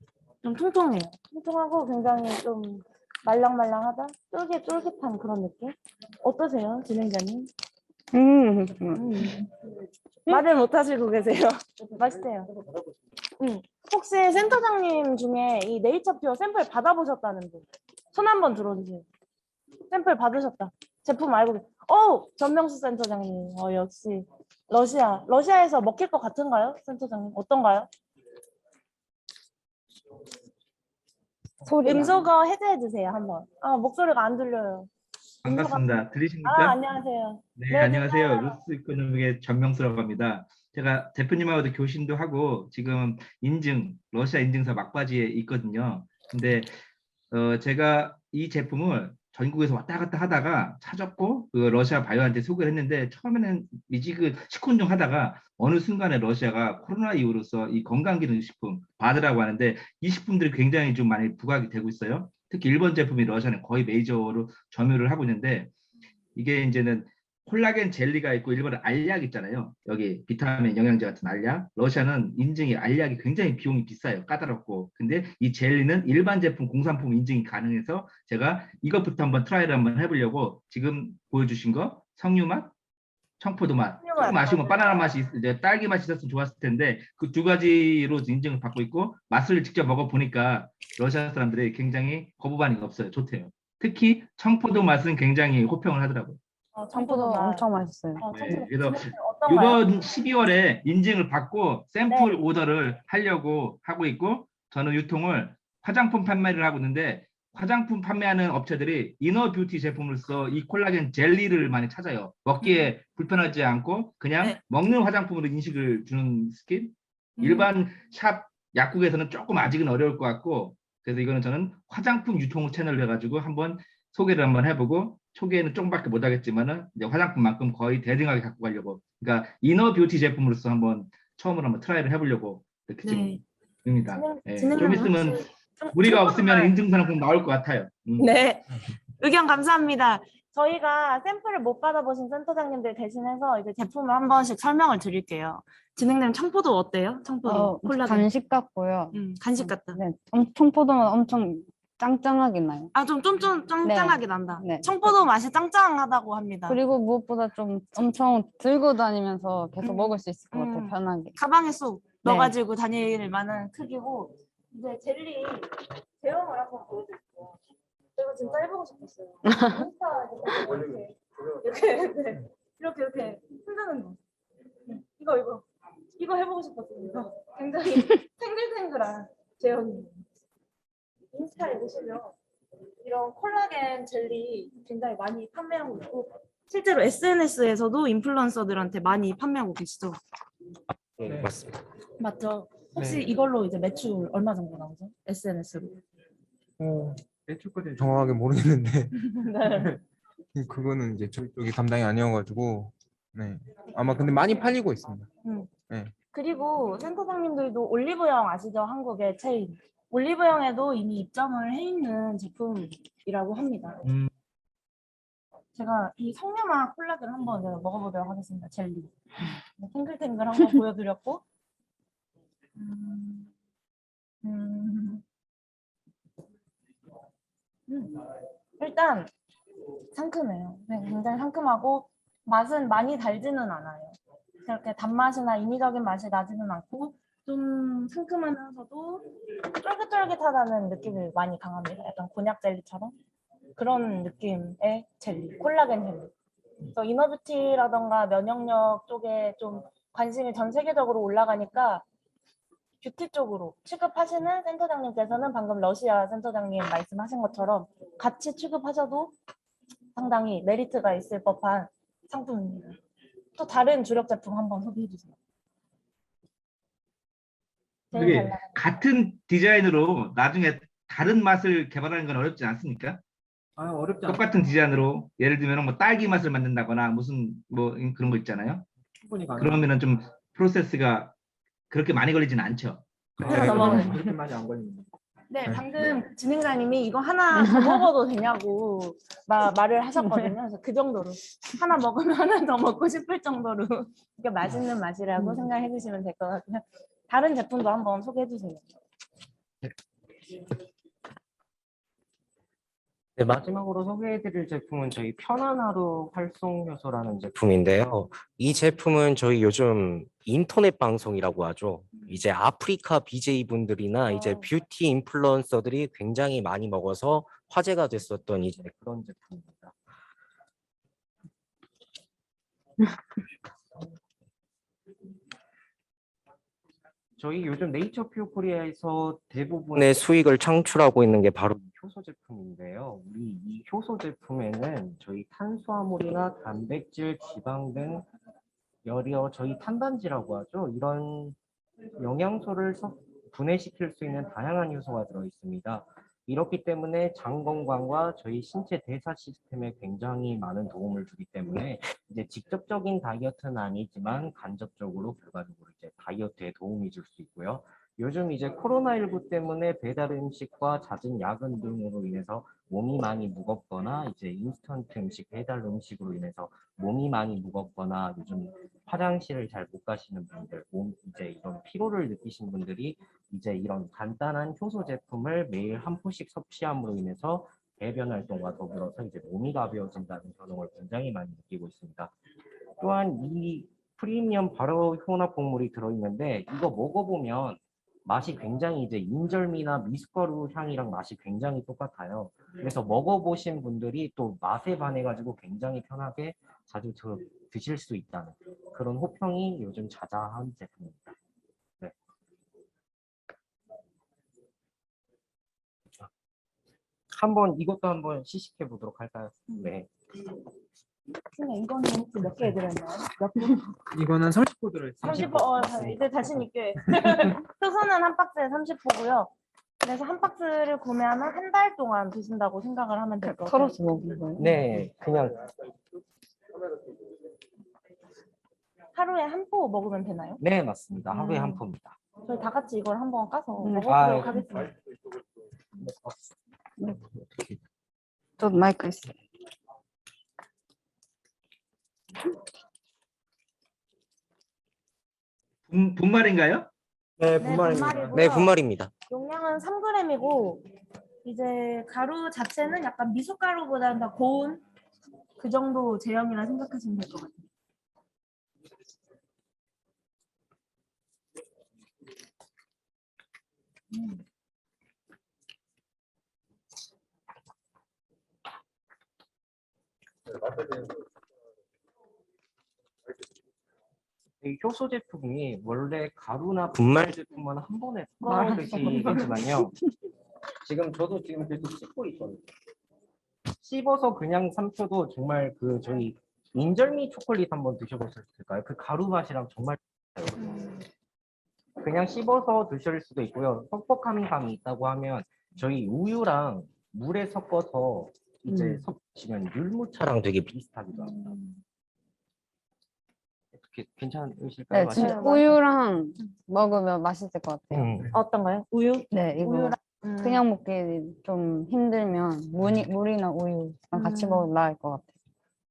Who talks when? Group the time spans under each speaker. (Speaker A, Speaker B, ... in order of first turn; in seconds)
Speaker A: 0.4-7.5, 8.9-9.5, 10.3-12.5, 13.4-19.1, 19.9-27.9, 31.8-34.9, 35.5-35.8, 36.4-38.6, 84.0-85.0, 96.8-97.7, 98.2-99.8, 102.1-102.4, 112.6-112.9, 117.4-117.7, 133.0-133.4, 134.1-136.8, 138.2-138.6, 139.2-148.3, 149.1-150.0, 152.9-156.8, 159.8-167.5, 168.2-174.2, 174.9-175.6, 176.2-180.2, 181.3-182.3, 183.0-190.2, 192.2-196.0, 199.2-200.0, 205.4-205.7, 206.3-214.0, 215.8-219.2, 219.7-221.4, 222.8-223.5, 224.4-225.2, 227.9-228.2, 228.8-229.3, 230.1-239.3, 239.8-243.1, 243.8-246.3, 246.9-252.0, 253.0-259.3, 260.1-263.0, 263.6-265.4, 268.1-268.6, 283.5-284.2, 285.5-298.9, 314.3-314.7, 411.5-413.8, 415.2-424.0, 429.1-430.6, 431.4-431.7, 432.4-434.9, 447.6-448.7, 449.3-450.8, 451.4-454.8, 455.6-457.6, 478.4-479.6, 490.6-491.0, 501.1-501.8, 505.1-505.8, 508.3-510.6, 514.1-514.7
Speaker B: 8.1-9.1, 31.6-32.2, 96.9-98.2, 147.5-152.9, 153.8-155.1, 156.7-161.4, 162.2-162.5, 169.5-169.8, 287.7-288.0, 423.4-424.7, 433.8-434.6, 438.6-439.4, 504.9-508.1, 509.3-515.3
Speaker C: 35.5-36.8, 37.6-46.8, 47.3-65.7, 66.4-82.7, 83.4-96.4, 98.3-138.3, 214.1-214.3, 268.1-273.2, 274.3-278.9, 279.6-281.3, 281.9-283.8, 445.9-446.9
Speaker D: 191.0-191.8, 303.4-320.0, 327.4-338.3, 339.0-341.6, 342.2-382.3, 383.0-401.4, 407.3-410.1, 415.2-416.2, 424.6-425.7, 430.6-432.2, 434.1-434.6, 447.4-449.1, 474.6-479.9, 480.8-482.7, 483.8-490.9, 492.0-501.5, 503.7-505.6, 507.9-508.3
Speaker E: 191.2-191.5, 193.0-193.3, 196.8-200.0, 200.5-205.3, 273.8-274.6, 279.2-279.9, 283.4-285.1, 285.7-286.2, 414.1-416.0, 417.1-417.5, 447.9-448.4